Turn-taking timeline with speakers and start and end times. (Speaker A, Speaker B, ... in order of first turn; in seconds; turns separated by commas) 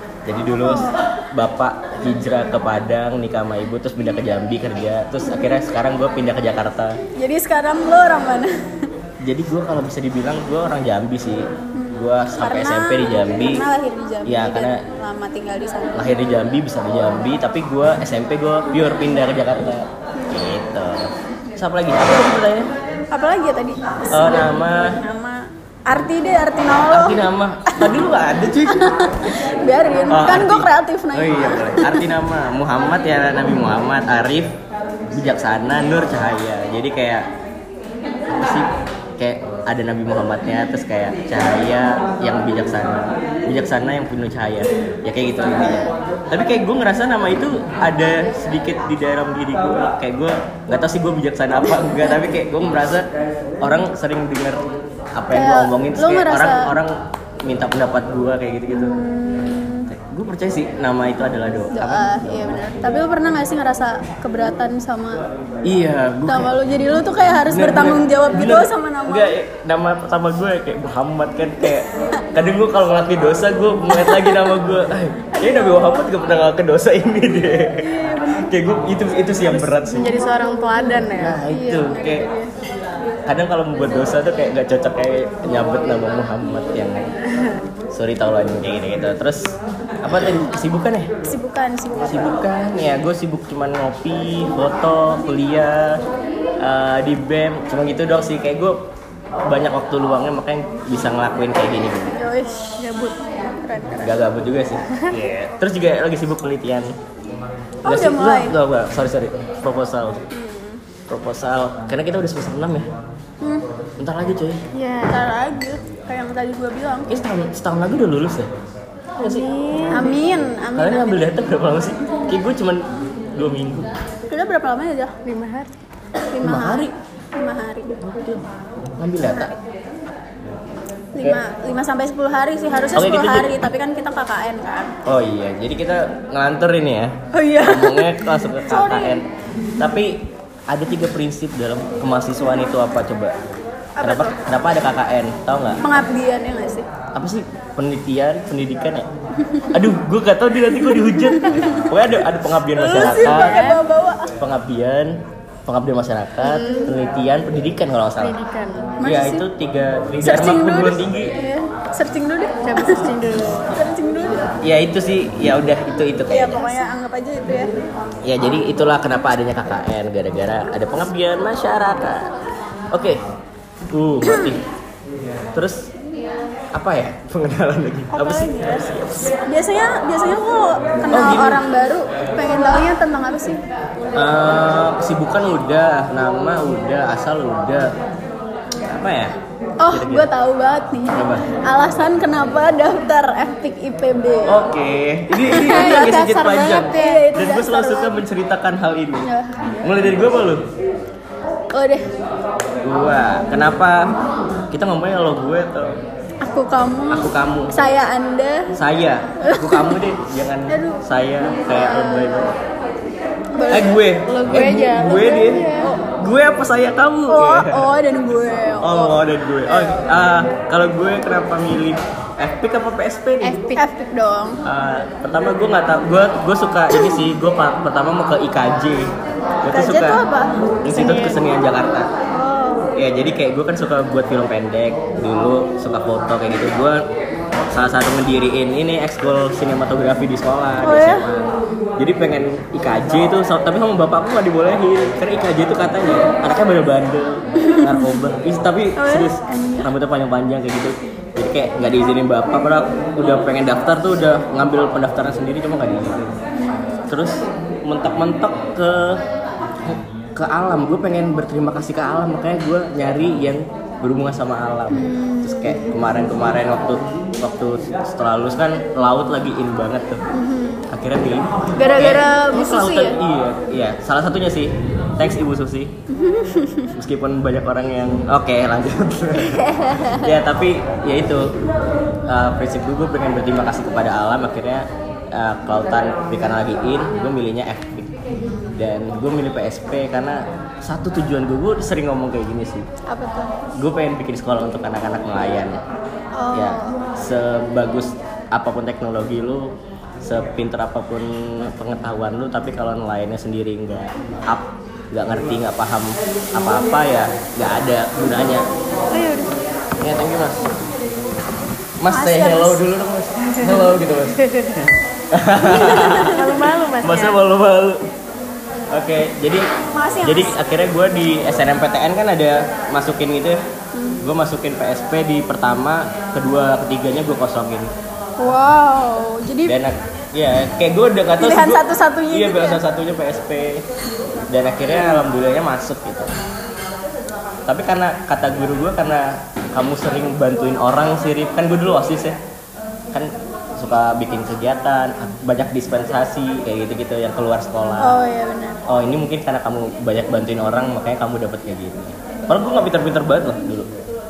Speaker A: 0.3-7.0, Speaker B: 0.6-1.0, Speaker B: 7.2-8.5, Speaker A: 9.2-13.7, Speaker B: 11.8-16.1, Speaker A: 14.2-14.8, Speaker A: 15.9-22.7, Speaker B: 23.1-27.9, Speaker A: 24.1-25.0, Speaker A: 26.9-28.9, Speaker B: 28.7-32.1, Speaker A: 30.1-34.6, Speaker A: 35.1-37.3, Speaker A: 38.3-53.1, Speaker B: 45.6-45.9, Speaker B: 51.8-52.2, Speaker A: 53.6-54.6, Speaker A: 55.1-59.0, Speaker B: 55.3-56.7, Speaker B: 58.7-59.9, Speaker A: 59.9-62.3, Speaker B: 61.7-65.2, Speaker A: 65.6-66.6, Speaker B: 66.3-69.3, Speaker A: 67.3-80.2, Speaker B: 73.9-74.5, Speaker B: 75.3-76.1, Speaker B: 77.7-78.5, Speaker B: 79.5-80.6, Speaker C: 79.7-81.4, Speaker A: 81.2-82.3, Speaker B: 81.5-82.5, Speaker A: 83.3-87.1, Speaker C: 87.3-87.6, Speaker A: 87.9-91.1, Speaker B: 91.3-92.4, Speaker A: 92.1-96.0, Speaker A: 96.6-98.9, Speaker A: 99.5-102.2, Speaker B: 102.1-102.8, Speaker C: 102.8-103.2, Speaker B: 103.6-104.2, Speaker A: 104.0-106.9, Speaker B: 107.8-108.6, Speaker A: 107.9-110.2, Speaker B: 110.3-110.8, Speaker A: 111.1-112.9, Speaker A: 114.0-114.6, Speaker C: 114.7-115.3, Speaker B: 115.1-117.1, Speaker A: 117.1-118.5, Speaker A: 119.2-119.5, Speaker C: 119.2-120.1, Speaker B: 119.9-121.3, Speaker A: 120.8-123.9, Speaker B: 124.3-125.1, Speaker C: 125.2-125.7, Speaker B: 126.3-128.0, Speaker A: 126.4-126.9, Speaker A: 128.0-128.4, Speaker A: 129.0-129.5, Speaker B: 131.2-134.9, Speaker A: 132.9-133.7, Speaker A: 135.1-139.2, Speaker B: 137.3-139.2, Speaker A: 139.8-143.4, Speaker B: 144.0-144.4, Speaker A: 144.0-145.8, Speaker B: 145.8-146.9, Speaker A: 147.2-149.1, Speaker B: 149.4-149.7, Speaker A: 149.7-153.7, Speaker B: 150.9-151.9, Speaker B: 152.7-154.3, Speaker C: 153.0-153.8, Speaker A: 154.4-158.4, Speaker C: 156.4-156.9, Speaker C: 158.2-158.9, Speaker B: 159.0-159.5, Speaker A: 159.0-161.3, Speaker B: 160.2-163.1, Speaker C: 162.6-163.7, Speaker B: 163.7-164.6, Speaker A: 164.6-166.6, Speaker B: 166.3-167.7, Speaker A: 168.2-172.3, Speaker A: 172.9-173.2, Speaker A: 173.9-174.6, Speaker B: 174.2-174.5, Speaker A: 175.5-175.9, Speaker A: 176.7-179.3, Speaker B: 178.1-183.6, Speaker A: 181.1-181.6, Speaker A: 184.1-187.9, Speaker A: 188.9-189.4, Speaker B: 189.8-194.6, Speaker A: 189.9-190.3, Speaker A: 191.1-191.5, Speaker A: 194.5-199.3, Speaker B: 195.5-196.3, Speaker C: 195.5-197.2, Speaker B: 196.9-198.2, Speaker B: 199.2-199.9, Speaker A: 199.8-200.7, Speaker B: 201.7-202.1, Speaker A: 202.8-204.1, Speaker A: 204.7-206.0, Speaker B: 206.4-208.7, Speaker A: 207.1-207.7, Speaker A: 208.7-212.5, Speaker B: 209.4-210.0, Speaker B: 210.7-212.5, Speaker B: 213.6-214.0, Speaker C: 213.6-215.9, Speaker A: 213.7-217.9, Speaker B: 217.3-220.1, Speaker A: 218.8-223.6, Speaker C: 223.4-223.8, Speaker B: 223.8-224.6, Speaker A: 224.7-230.2, Speaker B: 229.7-231.4, Speaker A: 230.8-232.1, Speaker C: 230.9-231.3, Speaker B: 232.4-232.8, Speaker A: 232.9-237.1, Speaker A: 237.7-256.3, Speaker B: 240.8-241.3, Speaker B: 247.6-248.1, Speaker B: 249.0-249.9, Speaker B: 256.6-257.0, Speaker A: 257.1-259.2, Speaker A: 259.8-270.2, Speaker B: 264.9-265.9, Speaker B: 270.3-270.9, Speaker A: 270.9-275.9, Speaker B: 271.8-273.2, Speaker B: 276.1-276.9, Speaker A: 276.9-281.5, Speaker B: 279.4-280.3, Speaker A: 282.3-288.2, Speaker A: 288.7-292.9, Speaker B: 293.1-293.5, Speaker C: 293.2-293.4, Speaker A: 293.8-295.8, Speaker B: 296.4-296.9, Speaker A: 296.5-308.7, Speaker C: 309.1-309.6, Speaker A: 310.0-310.7, Speaker A: 312.0-314.4, Speaker B: 312.1-312.8, Speaker C: 313.6-313.9, Speaker C: 314.4-314.8, Speaker A: 315.3-318.0, Speaker B: 315.6-316.3, Speaker C: 316.2-317.4, Speaker A: 318.9-319.7, Speaker B: 319.9-320.6, Speaker A: 320.2-323.6, Speaker B: 323.9-324.2, Speaker A: 324.2-327.9, Speaker B: 328.4-329.8, Speaker A: 329.7-333.9, Speaker B: 331.4-332.8, Speaker A: 334.5-336.3, Speaker B: 334.9-335.2, Speaker A: 337.7-342.4, Speaker A: 343.1-348.2, Speaker B: 348.0-348.8, Speaker A: 348.9-353.9